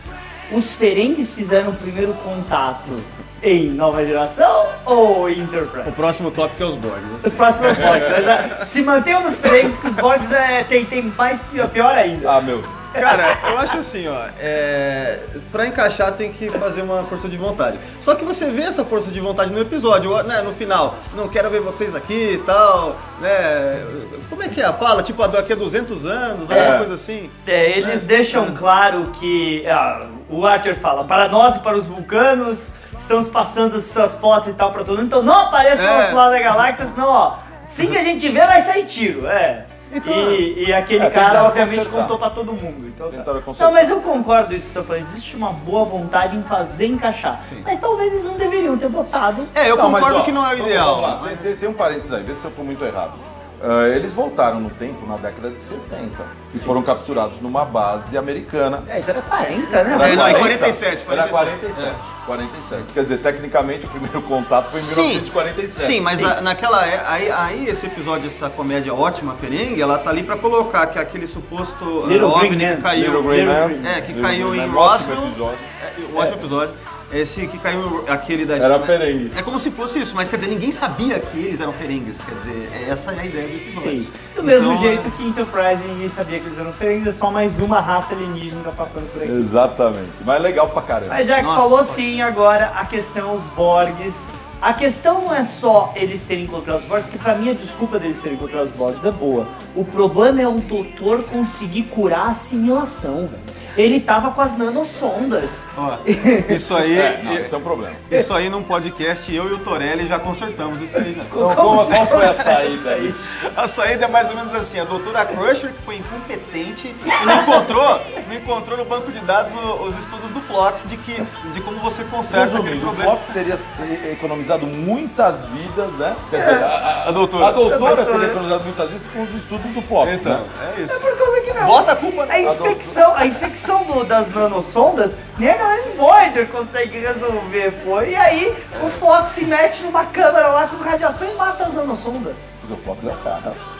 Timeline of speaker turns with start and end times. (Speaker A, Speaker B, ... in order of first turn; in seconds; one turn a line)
Speaker A: 0.5-6.0
Speaker B: 5.8-8.6
Speaker A: 7.2-12.4
Speaker C: 12.2-12.8
Speaker B: 12.9-28.6
Speaker A: 13.0-13.4
Speaker A: 26.5-26.8
Speaker C: 26.5-26.9
Speaker A: 27.5-49.5
Speaker B: 35.7-36.2
Speaker B: 39.9-40.5
Speaker C: 41.0-42.2
Speaker C: 43.1-43.9
Speaker B: 49.5-51.5
Speaker C: 49.7-58.9
Speaker A: 58.9-60.6
Speaker C: 59.9-66.3
Speaker B: 59.9-62.0
Speaker B: 64.7-85.1
Speaker A: 72.0-74.0
Speaker C: 72.9-75.7
Speaker C: 78.6-79.4
Speaker A: 83.8-89.5
Speaker C: 89.2-91.2
Speaker A: 91.1-106.7
Speaker B: 91.4-92.0
Speaker B: 105.8-107.5
Speaker C: 106.9-108.1
Speaker B: 108.1-112.2
Speaker A: 111.3-113.3
Speaker C: 111.4-113.2
Speaker B: 113.4-123.2
Speaker A: 117.1-117.7
Speaker C: 122.3-130.4
Speaker A: 126.3-126.7
Speaker B: 126.9-127.7
Speaker A: 127.6-128.4
Speaker B: 130.0-132.7
Speaker A: 130.9-142.4
Speaker C: 132.4-133.0
Speaker B: 138.8-139.0
Speaker C: 142.6-143.6